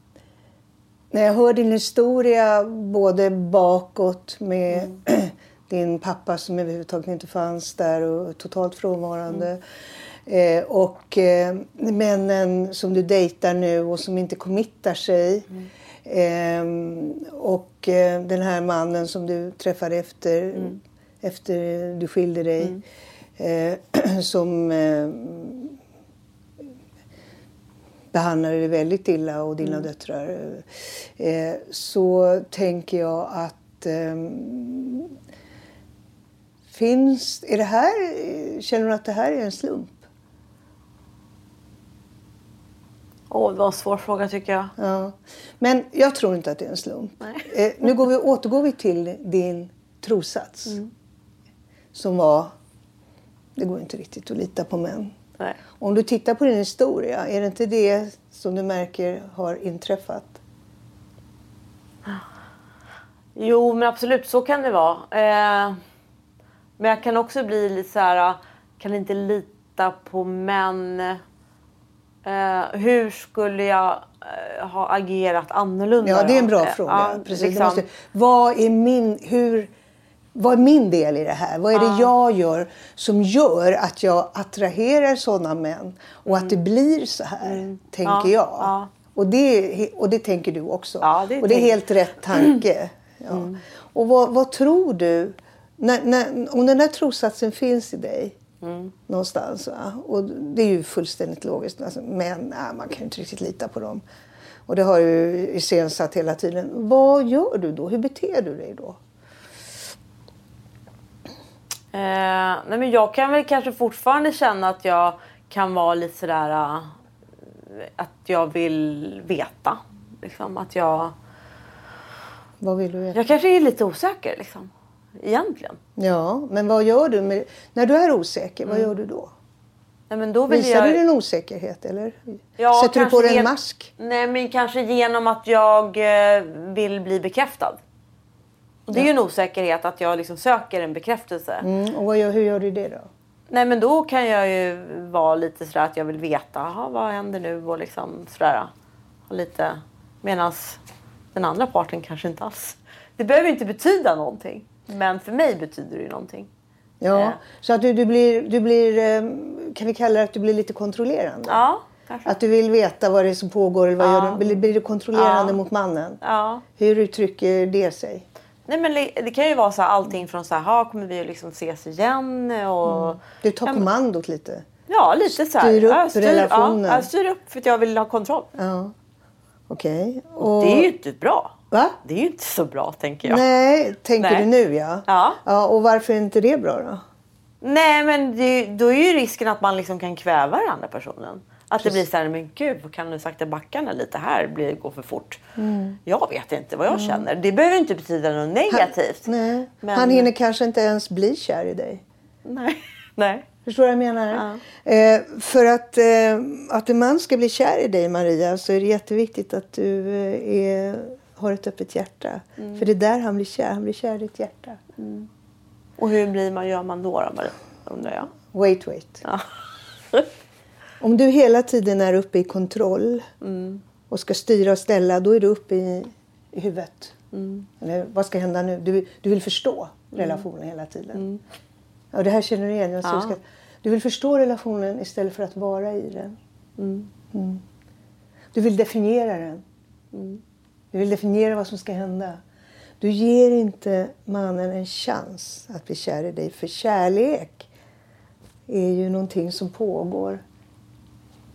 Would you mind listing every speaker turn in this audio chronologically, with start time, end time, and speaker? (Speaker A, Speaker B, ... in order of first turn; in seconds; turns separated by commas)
Speaker A: 1.1-9.6, Speaker A: 10.2-15.5, Speaker A: 16.0-22.8, Speaker A: 23.4-25.7, Speaker A: 28.1-35.1, Speaker A: 36.7-40.1, Speaker B: 43.3-44.7, Speaker A: 44.8-50.8, Speaker A: 51.9-52.5, Speaker A: 53.5-55.1, Speaker A: 55.8-60.4, Speaker B: 63.4-65.8, Speaker B: 66.8-71.2, Speaker B: 72.2-77.8, Speaker A: 76.0-79.7, Speaker A: 80.3-98.3, Speaker B: 81.7-82.1, Speaker B: 86.2-86.6, Speaker B: 87.4-88.9, Speaker B: 91.0-91.8, Speaker B: 93.3-93.6, Speaker B: 98.6-98.9, Speaker A: 99.1-104.0, Speaker A: 104.7-109.0, Speaker B: 111.9-116.9, Speaker B: 117.7-121.1, Speaker A: 122.6-123.2, Speaker B: 123.1-125.8, Speaker A: 126.0-129.3, Speaker B: 130.1-131.0, Speaker A: 130.5-133.9, Speaker B: 132.6-137.8, Speaker B: 138.9-141.7, Speaker A: 141.6-143.1, Speaker B: 143.5-148.7, Speaker B: 149.3-150.8, Speaker B: 151.3-156.5, Speaker A: 157.0-161.6, Speaker B: 157.1-157.4, Speaker B: 161.5-162.3, Speaker A: 162.2-166.2, Speaker B: 164.0-164.6, Speaker B: 165.1-165.6, Speaker B: 166.2-166.6, Speaker A: 166.7-168.2, Speaker B: 168.7-173.8, Speaker A: 172.8-174.7, Speaker B: 174.9-178.5, Speaker A: 175.5-177.1, Speaker A: 178.5-178.9, Speaker A: 179.7-180.9, Speaker B: 180.4-183.4, Speaker A: 181.7-182.0, Speaker A: 183.2-187.0, Speaker B: 184.2-184.5, Speaker B: 185.1-185.4, Speaker B: 187.6-195.4, Speaker A: 195.6-196.0, Speaker B: 196.1-199.3, Speaker A: 196.9-197.2, Speaker A: 198.7-202.0, Speaker B: 199.8-200.3, Speaker B: 202.4-203.4, Speaker A: 203.6-214.8, Speaker B: 204.3-204.6, Speaker B: 212.6-212.8, Speaker B: 215.0-215.3, Speaker B: 216.0-218.3, Speaker A: 218.5-219.2, Speaker A: 221.0-223.3, Speaker B: 223.4-223.8, Speaker A: 224.1-227.1, Speaker B: 227.3-227.7, Speaker A: 227.8-231.2, Speaker B: 230.1-230.4, Speaker B: 231.1-231.4, Speaker A: 232.1-236.4, Speaker B: 233.0-233.3, Speaker B: 236.8-237.1, Speaker A: 237.3-237.6, Speaker A: 238.5-239.6, Speaker B: 240.1-240.4, Speaker A: 240.9-242.4, Speaker A: 243.0-247.7, Speaker A: 248.7-250.4